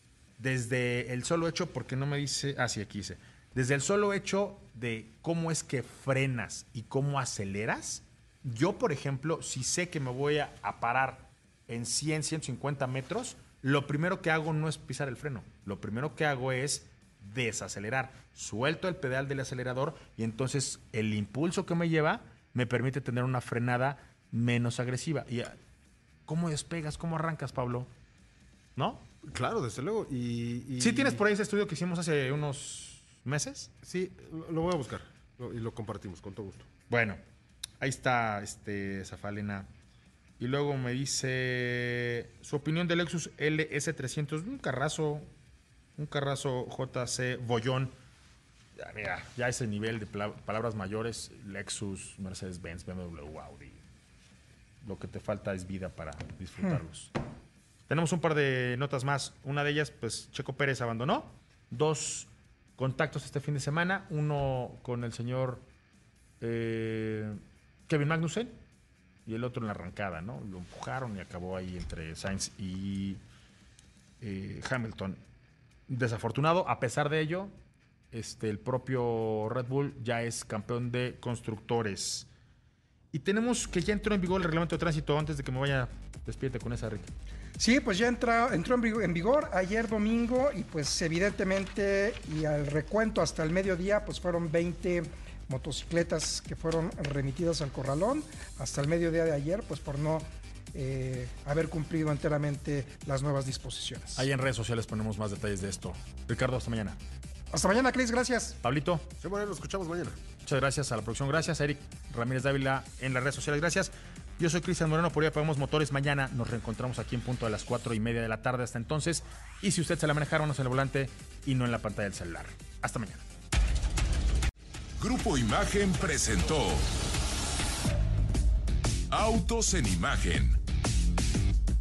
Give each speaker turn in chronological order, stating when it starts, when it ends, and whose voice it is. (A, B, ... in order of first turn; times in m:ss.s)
0:00.4-0:25.6 A
0:26.3-0:27.9 A
0:28.8-0:29.1 A
0:29.3-0:31.2 B
0:30.8-0:33.7 A
0:33.8-0:36.7 B
0:36.9-0:37.2 A
0:37.8-0:39.7 A
0:40.4-0:45.3 A
0:46.0-0:47.9 A
0:48.8-0:53.8 A
0:54.8-0:57.1 A
0:57.9-1:05.6 A
1:06.4-1:08.6 A
1:09.3-1:13.2 A
1:14.2-1:15.2 A
1:15.9-1:17.6 A
1:18.1-1:22.3 A
1:23.1-1:27.1 A
1:27.6-1:44.3 C
1:44.2-1:47.0 A
1:47.5-1:48.6 C
1:48.6-1:49.1 A
1:49.2-1:50.2 B
1:50.4-2:03.3 A
2:05.0-2:06.9 D
2:09.1-2:10.6 D